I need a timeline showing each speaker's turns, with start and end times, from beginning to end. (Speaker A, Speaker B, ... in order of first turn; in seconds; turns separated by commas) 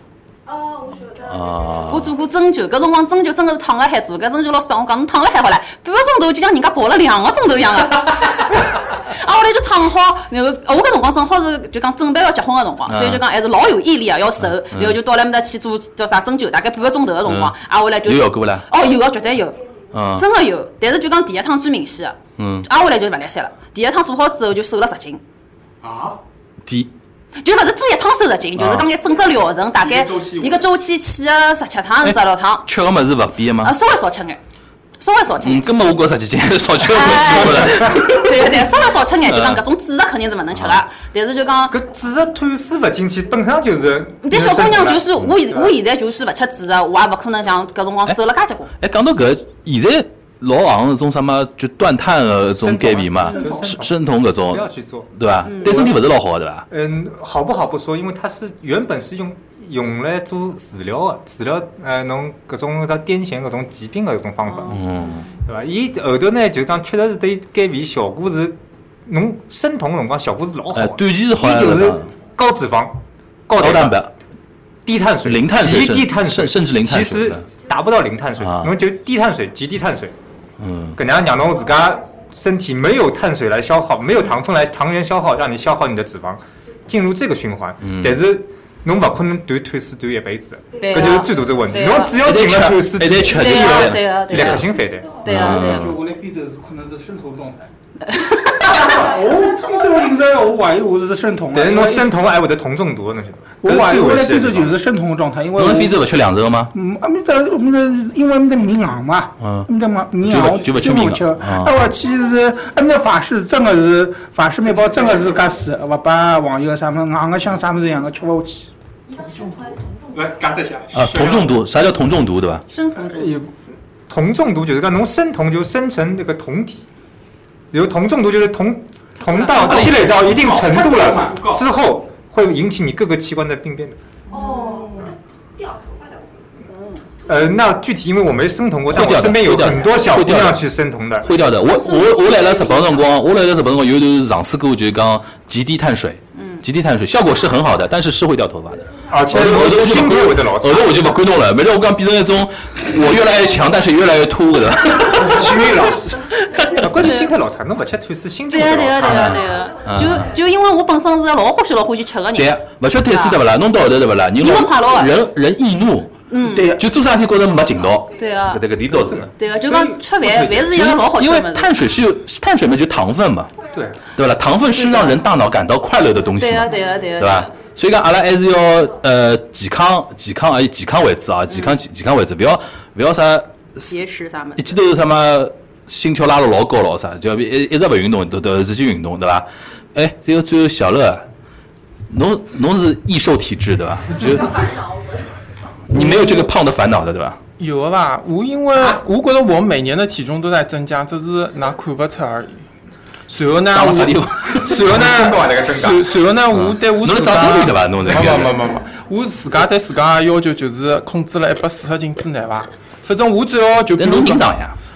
Speaker A: 0.5-2.0, Speaker B: 1.3-2.1, Speaker C: 1.9-25.2, Speaker B: 12.9-13.2, Speaker B: 14.4-15.0, Speaker B: 17.2-17.5, Speaker B: 18.0-18.7, Speaker B: 19.9-20.2, Speaker B: 22.4-22.7, Speaker D: 25.8-26.2, Speaker C: 27.4-32.7, Speaker B: 28.6-28.9, Speaker D: 29.2-30.6, Speaker B: 32.0-33.7, Speaker C: 33.6-34.4, Speaker C: 35.0-35.7, Speaker B: 35.4-38.6, Speaker C: 36.9-41.8, Speaker B: 39.2-39.6, Speaker B: 40.5-40.8, Speaker E: 41.7-45.7, Speaker C: 44.2-48.7, Speaker B: 48.8-56.6, Speaker E: 52.5-56.0, Speaker C: 53.2-53.6, Speaker C: 55.5-55.8, Speaker E: 56.7-64.8, Speaker C: 64.4-65.2, Speaker B: 64.7-65.3, Speaker E: 65.4-74.0, Speaker B: 70.7-72.1, Speaker B: 73.6-74.1, Speaker E: 74.8-80.1, Speaker B: 75.2-77.4, Speaker B: 78.4-78.7, Speaker B: 80.6-81.0, Speaker E: 81.0-95.1, Speaker B: 87.8-88.2, Speaker A: 90.7-91.0, Speaker C: 90.8-92.2, Speaker B: 92.1-94.6, Speaker C: 93.2-95.9, Speaker B: 95.2-96.0, Speaker F: 95.2-97.7, Speaker C: 98.0-98.8, Speaker F: 98.6-102.1, Speaker A: 98.6-100.0, Speaker E: 101.5-104.7, Speaker F: 103.6-106.1, Speaker B: 105.5-106.7, Speaker F: 106.7-118.7, Speaker B: 109.4-109.7, Speaker B: 110.2-111.7, Speaker A: 119.1-120.4, Speaker D: 120.1-121.5, Speaker B: 120.9-122.6, Speaker C: 122.7-123.3, Speaker E: 123.1-123.5, Speaker E: 124.1-126.8, Speaker E: 127.7-134.0, Speaker C: 129.2-129.5, Speaker D: 129.6-131.7, Speaker B: 129.6-130.1, Speaker F: 130.6-131.2, Speaker A: 134.3-136.5, Speaker C: 134.3-134.7, Speaker C: 136.7-137.0, Speaker A: 137.0-137.6, Speaker E: 137.2-141.2, Speaker B: 138.9-140.7, Speaker A: 139.5-139.8, Speaker A: 141.2-143.1, Speaker B: 141.2-155.7, Speaker C: 146.3-146.6, Speaker E: 149.1-151.1, Speaker F: 155.2-156.2, Speaker A: 155.7-157.1, Speaker E: 156.7-159.3, Speaker C: 158.5-163.4, Speaker B: 159.0-160.3, Speaker A: 159.2-160.9, Speaker B: 162.3-169.3, Speaker C: 164.4-165.3, Speaker C: 166.3-166.8, Speaker F: 166.5-166.8, Speaker A: 167.9-168.2, Speaker C: 168.1-168.7, Speaker E: 168.9-170.7, Speaker C: 169.3-171.8, Speaker B: 170.7-173.5, Speaker E: 173.7-174.0, Speaker B: 174.1-183.9, Speaker C: 174.7-175.3, Speaker C: 176.4-177.5, Speaker A: 176.8-177.2, Speaker C: 181.5-181.8, Speaker C: 183.8-184.8, Speaker B: 184.6-191.2, Speaker B: 192.1-194.7, Speaker A: 194.1-195.3, Speaker B: 195.9-197.4, Speaker G: 196.0-196.3, Speaker G: 197.6-202.6, Speaker G: 203.3-214.4, Speaker B: 203.7-204.8, Speaker E: 204.6-206.0, Speaker B: 206.5-208.5, Speaker B: 214.0-214.8